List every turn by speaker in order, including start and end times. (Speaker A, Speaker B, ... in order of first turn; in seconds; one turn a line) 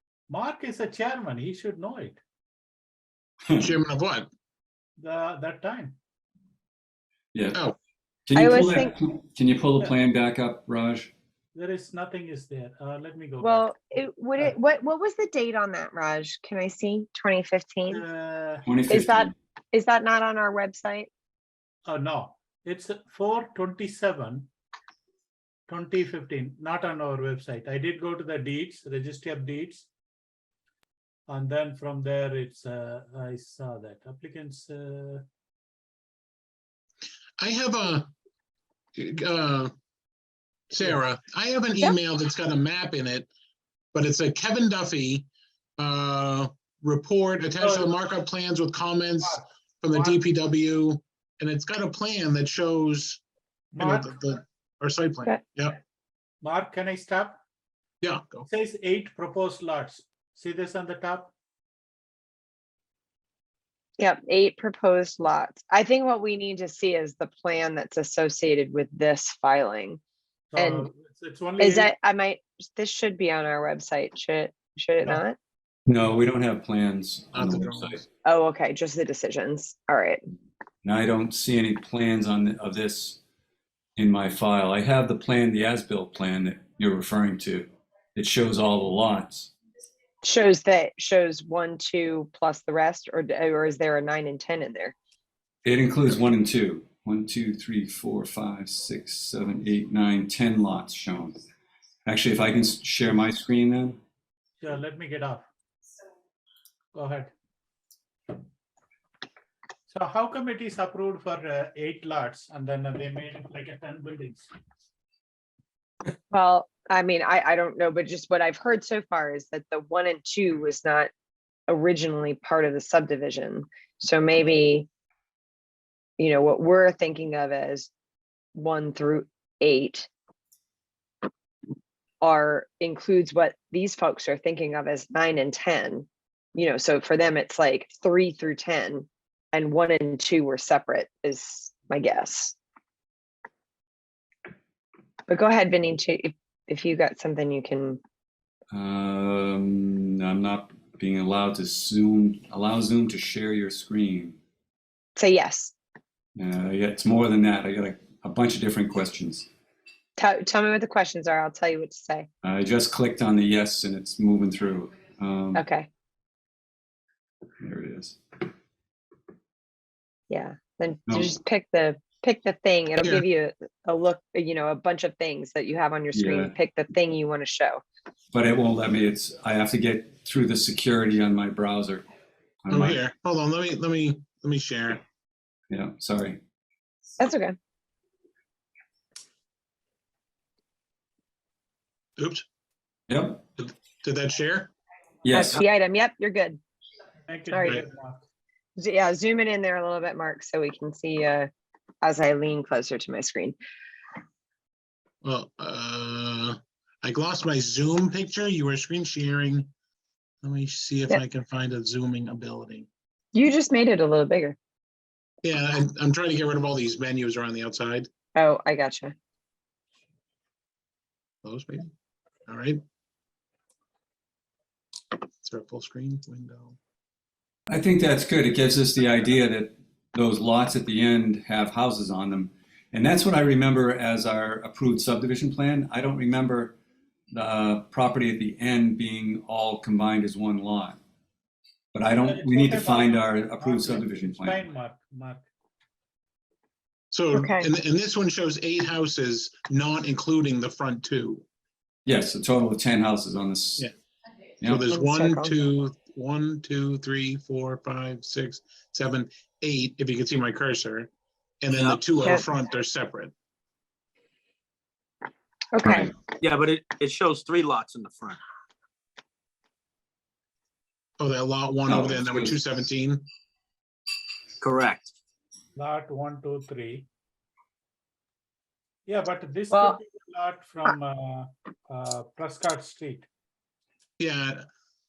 Speaker A: 0.3-2.2
Speaker B: 3.6-4.3
Speaker A: 5.0-6.0
Speaker C: 7.3-7.6
Speaker C: 8.3-11.1
Speaker D: 8.3-8.9
Speaker A: 11.6-13.7
Speaker D: 13.4-18.0
Speaker A: 17.9-18.7
Speaker C: 18.7-19.3
Speaker D: 18.9-21.1
Speaker A: 21.9-24.5
Speaker A: 25.7-29.9
Speaker A: 31.3-35.3
Speaker B: 37.4-38.1
Speaker B: 39.0-39.7
Speaker B: 40.7-43.3
Speaker B: 43.9-53.2
Speaker A: 47.6-48.0
Speaker A: 49.2-50.2
Speaker A: 53.8-54.2
Speaker B: 53.8-55.8
Speaker A: 56.4-57.4
Speaker B: 58.0-58.5
Speaker A: 58.5-61.3
Speaker D: 64.0-70.0
Speaker A: 70.5-71.9
Speaker D: 70.6-70.9
Speaker D: 71.6-75.4
Speaker C: 75.9-78.0
Speaker B: 77.3-78.0
Speaker D: 78.2-80.2
Speaker C: 80.8-83.2
Speaker C: 84.0-89.5
Speaker D: 90.2-95.0
Speaker C: 95.7-101.4
Speaker C: 102.1-104.0
Speaker A: 104.6-105.5
Speaker A: 106.9-107.3
Speaker A: 109.9-114.5
Speaker D: 116.3-121.1
Speaker D: 121.7-124.9
Speaker D: 126.2-127.9
Speaker D: 128.6-130.1
Speaker D: 132.2-142.6
Speaker D: 145.3-148.0
Speaker C: 148.7-154.4
Speaker D: 155.2-155.7
Speaker C: 156.4-159.5
Speaker D: 160.2-162.3
Speaker C: 162.4-165.6
Speaker D: 165.6-165.9
Speaker C: 167.6-168.2
Speaker D: 170.3-177.8
Speaker B: 173.0-173.2
Speaker C: 176.1-176.5
Speaker C: 178.3-182.1
Speaker C: 182.7-183.0
Speaker B: 182.7-185.0
Speaker C: 185.7-186.4
Speaker D: 187.2-187.6
Speaker B: 192.2-192.4
Speaker C: 193.1-193.4
Speaker B: 193.6-194.7
Speaker C: 195.2-195.6
Speaker D: 195.3-196.6
Speaker A: 197.3-198.2
Speaker D: 197.5-197.8
Speaker D: 198.8-201.5
Speaker D: 202.0-203.6
Speaker B: 205.2-209.7
Speaker B: 210.4-212.9
Speaker D: 213.3-214.6
Speaker B: 215.4-218.1
Speaker D: 218.4-219.2
Speaker B: 221.4-221.9
Speaker B: 222.5-222.8
Speaker B: 225.4-226.8
Speaker C: 227.7-236.8
Speaker C: 237.3-241.0
Speaker C: 241.9-244.7
Speaker A: 242.2-245.5
Speaker B: 247.1-251.4
Speaker D: 247.3-247.7
Speaker C: 252.1-253.9
Speaker B: 254.6-261.1
Speaker D: 254.9-255.5
Speaker B: 261.6-263.3
Speaker E: 261.8-262.0
Speaker D: 265.7-266.1
Speaker E: 266.4-268.4
Speaker B: 271.2-273.3
Speaker C: 271.9-272.6
Speaker E: 274.6-275.1
Speaker A: 275.8-277.1
Speaker A: 279.1-283.3
Speaker D: 279.7-280.0
Speaker B: 284.2-284.6